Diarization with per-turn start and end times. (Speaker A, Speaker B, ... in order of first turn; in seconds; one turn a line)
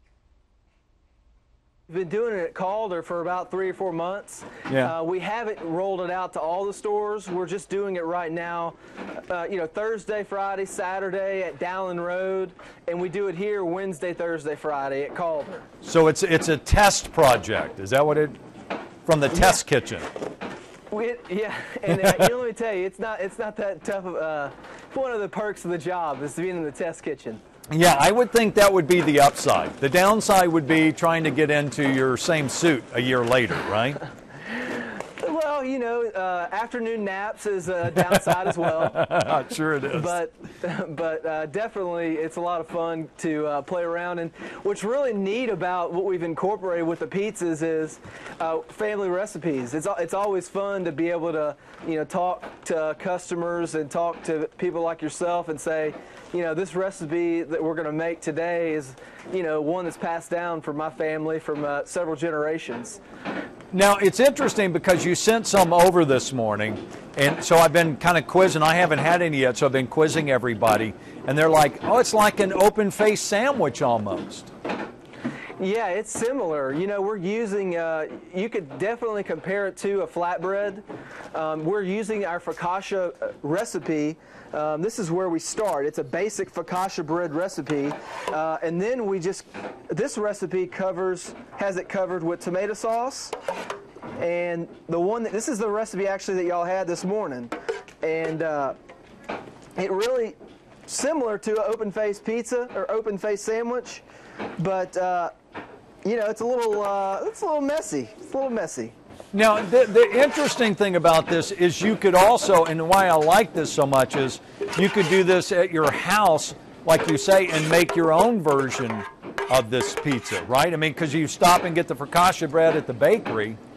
Speaker A: 1.9-15.7
Speaker B: 4.7-4.9
Speaker B: 15.8-18.4
Speaker B: 19.1-20.1
Speaker A: 20.9-27.4
Speaker B: 21.9-22.3
Speaker B: 27.7-34.0
Speaker A: 34.7-39.0
Speaker B: 38.8-40.1
Speaker A: 39.9-63.0
Speaker B: 63.7-74.5
Speaker A: 75.6-93.3
Speaker A: 94.2-98.8
Speaker A: 99.8-104.0
Speaker A: 104.6-105.3
Speaker A: 106.0-108.9
Speaker B: 109.3-123.6